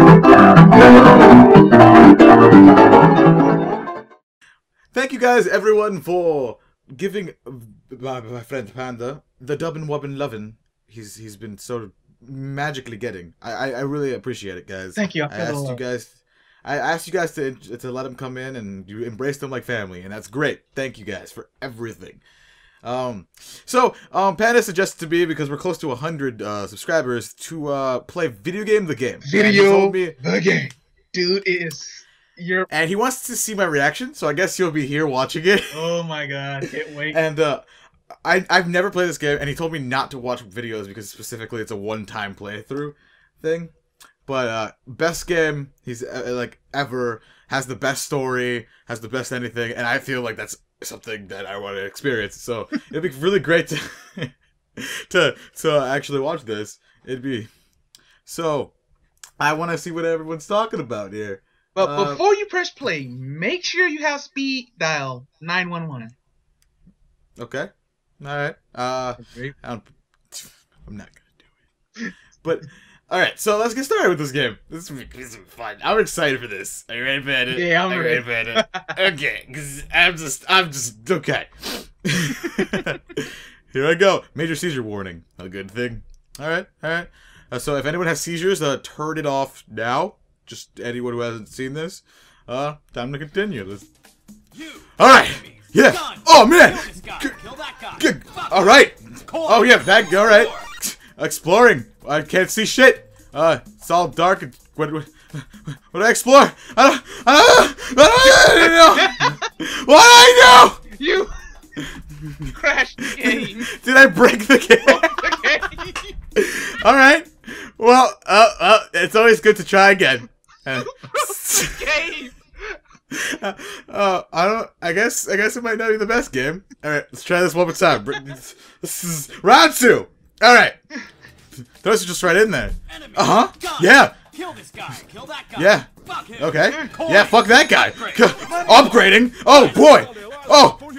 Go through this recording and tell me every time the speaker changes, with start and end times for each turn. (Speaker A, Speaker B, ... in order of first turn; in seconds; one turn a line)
Speaker A: 4.9-22.2
Speaker B: 15.0-15.8
Speaker A: 22.8-30.1
Speaker B: 29.2-32.7
Speaker A: 32.7-35.8
Speaker B: 35.7-37.2
Speaker A: 37.1-37.6
Speaker A: 38.2-43.7
Speaker A: 44.3-57.5
Speaker A: 58.2-58.7
Speaker A: 59.4-62.2
Speaker B: 61.8-66.2
Speaker A: 67.4-71.5
Speaker B: 69.2-69.5
Speaker A: 72.4-93.9
Speaker B: 77.5-78.9
Speaker B: 82.6-82.8
Speaker A: 95.0-97.4
Speaker C: 96.0-98.0
Speaker A: 97.9-110.8
Speaker B: 108.3-109.4
Speaker B: 110.9-111.3
Speaker A: 112.0-112.5
Speaker B: 112.5-113.7
Speaker A: 113.1-115.3
Speaker B: 114.9-116.1
Speaker A: 116.4-122.0
Speaker B: 120.7-122.8
Speaker A: 123.1-130.8
Speaker A: 131.8-134.2
Speaker C: 134.4-135.6
Speaker A: 135.5-140.8
Speaker C: 136.1-137.3